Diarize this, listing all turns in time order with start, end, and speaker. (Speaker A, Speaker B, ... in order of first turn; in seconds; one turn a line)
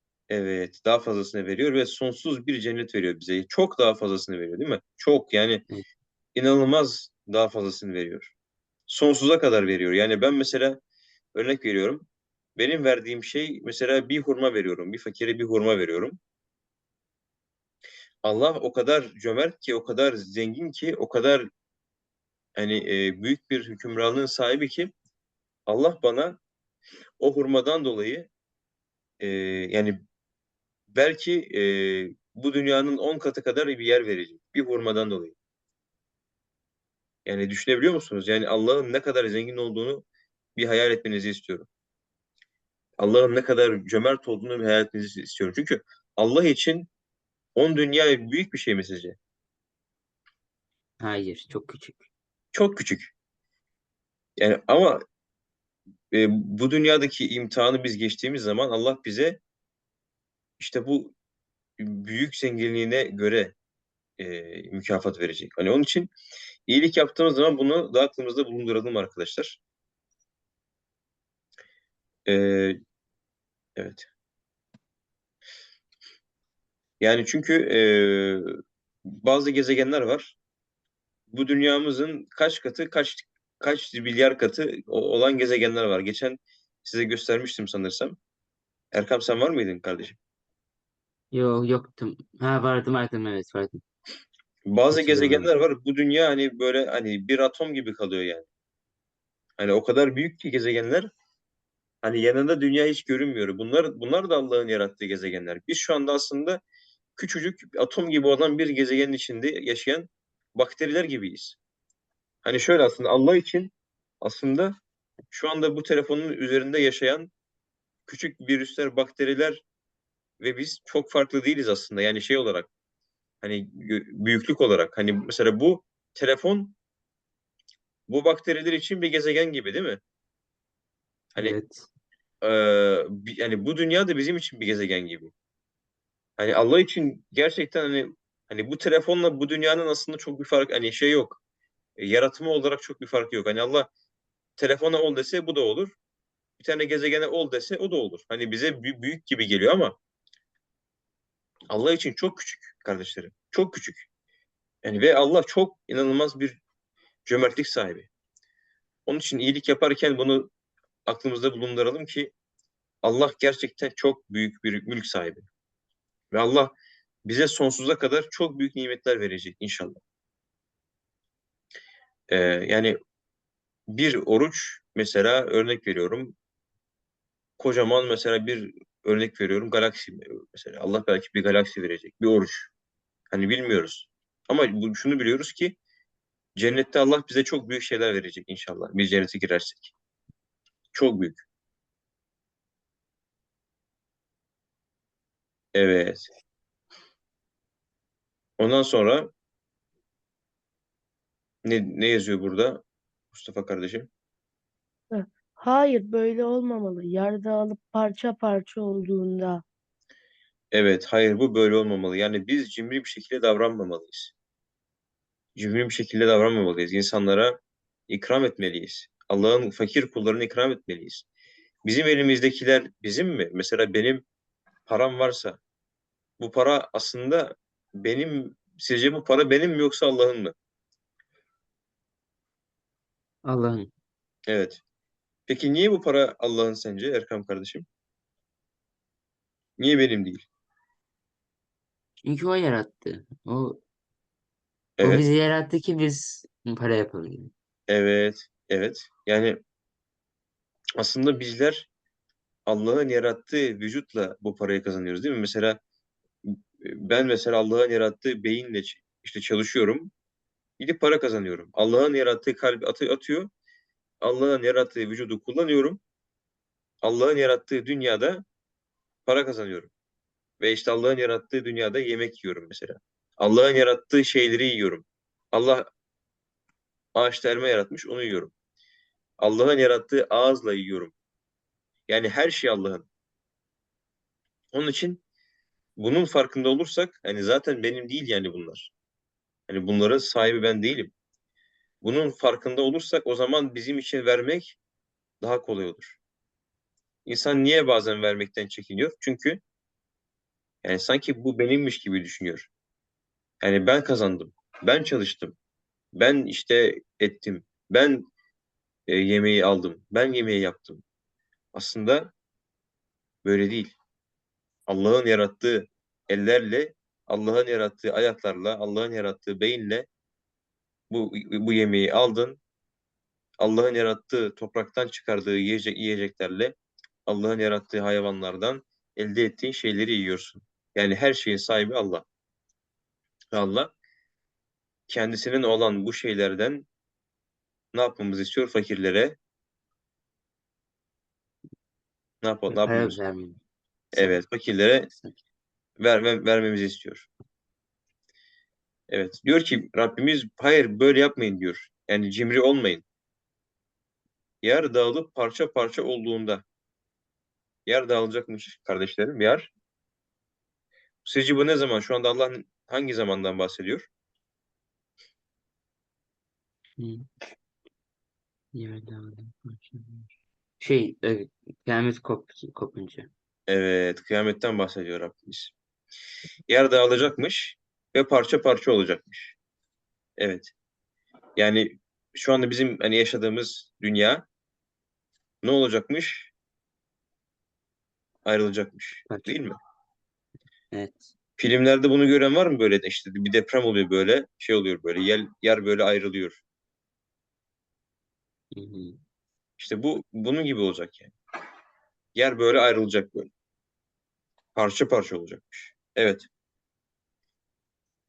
Speaker A: 0.3-5.6
Speaker A: 6.3-8.3
Speaker A: 8.9-10.8
Speaker A: 11.3-12.1
Speaker A: 12.6-16.2
Speaker A: 18.2-21.5
Speaker A: 22.6-24.9
Speaker A: 25.7-26.4
Speaker A: 27.2-28.3
Speaker A: 29.2-30.0
Speaker A: 30.9-35.4
Speaker A: 37.3-40.0
Speaker A: 40.6-41.7
Speaker A: 43.0-46.9
Speaker A: 47.5-49.2
Speaker B: 51.0-52.0
Speaker A: 52.5-53.1
Speaker A: 54.4-55.0
Speaker A: 56.1-59.4
Speaker A: 60.6-61.1
Speaker A: 61.8-63.5
Speaker A: 64.2-66.1
Speaker A: 66.7-69.6
Speaker A: 72.3-72.8
Speaker A: 73.8-74.1
Speaker A: 77.0-78.5
Speaker A: 79.1-80.4
Speaker A: 81.3-88.2
Speaker A: 88.9-90.2
Speaker B: 91.3-93.8
Speaker A: 94.7-98.5
Speaker B: 94.9-95.5
Speaker A: 99.6-101.1
Speaker A: 102.0-106.6
Speaker A: 107.2-111.6
Speaker A: 112.4-114.8
Speaker A: 115.3-117.3
Speaker A: 118.1-119.6
Speaker A: 120.4-122.7
Speaker A: 123.4-126.8
Speaker A: 128.1-130.0
Speaker B: 131.4-131.9
Speaker A: 132.4-135.3
Speaker A: 136.4-141.4
Speaker A: 142.0-143.9
Speaker A: 144.6-145.9
Speaker A: 146.6-150.0
Speaker A: 151.7-154.1
Speaker A: 154.8-156.6
Speaker A: 157.2-158.1
Speaker A: 159.1-160.5
Speaker A: 161.1-162.3
Speaker A: 163.0-165.5
Speaker A: 166.3-166.7
Speaker A: 167.2-170.0
Speaker A: 172.3-173.0
Speaker A: 173.9-176.3
Speaker A: 177.6-182.7
Speaker A: 183.3-185.8
Speaker A: 186.6-189.9
Speaker A: 190.9-191.4
Speaker A: 195.7-196.3
Speaker A: 198.6-199.3
Speaker A: 201.6-204.1
Speaker C: 205.1-209.6
Speaker A: 210.7-214.3
Speaker A: 215.6-217.6
Speaker A: 218.1-221.3
Speaker A: 221.9-224.2
Speaker A: 224.9-225.6
Speaker A: 226.4-230.6
Speaker B: 233.4-233.9
Speaker A: 234.5-234.8
Speaker A: 235.5-237.9
Speaker A: 239.8-240.5
Speaker B: 242.2-243.8
Speaker A: 245.0-245.3
Speaker B: 245.0-247.5
Speaker A: 247.9-249.6
Speaker A: 251.0-251.9
Speaker A: 252.7-255.8
Speaker A: 256.4-260.1
Speaker A: 260.8-263.5
Speaker A: 264.2-266.0
Speaker A: 267.0-268.4
Speaker A: 269.3-269.9
Speaker A: 270.6-275.9
Speaker A: 277.1-278.5
Speaker A: 279.4-281.1
Speaker A: 282.1-283.1
Speaker A: 284.7-285.2
Speaker A: 286.0-288.9
Speaker A: 289.7-291.1
Speaker A: 292.0-294.8
Speaker A: 295.4-296.2
Speaker A: 297.2-299.6
Speaker A: 300.8-302.7
Speaker A: 303.6-305.6
Speaker A: 306.1-308.3
Speaker A: 309.1-311.0
Speaker A: 311.7-312.3
Speaker A: 313.4-314.0
Speaker A: 314.9-320.1
Speaker A: 321.1-322.6
Speaker A: 323.6-326.7
Speaker A: 327.3-332.3
Speaker A: 333.5-333.9
Speaker A: 335.1-336.9
Speaker A: 337.9-339.4
Speaker A: 342.4-343.2
Speaker B: 342.7-343.6
Speaker A: 344.1-345.1
Speaker B: 345.1-345.4
Speaker A: 346.0-347.3
Speaker A: 349.1-353.1
Speaker A: 354.6-356.6
Speaker A: 357.9-359.7
Speaker A: 361.2-364.1
Speaker B: 367.0-367.2
Speaker B: 368.7-373.3
Speaker A: 373.7-375.7
Speaker A: 376.7-379.6
Speaker A: 380.4-380.7
Speaker A: 381.6-384.5
Speaker A: 385.6-386.5
Speaker A: 388.4-389.8
Speaker B: 389.3-389.6
Speaker B: 390.9-391.3
Speaker A: 391.6-396.6
Speaker B: 398.7-399.2
Speaker A: 399.8-401.3
Speaker A: 402.4-403.5
Speaker A: 404.8-406.5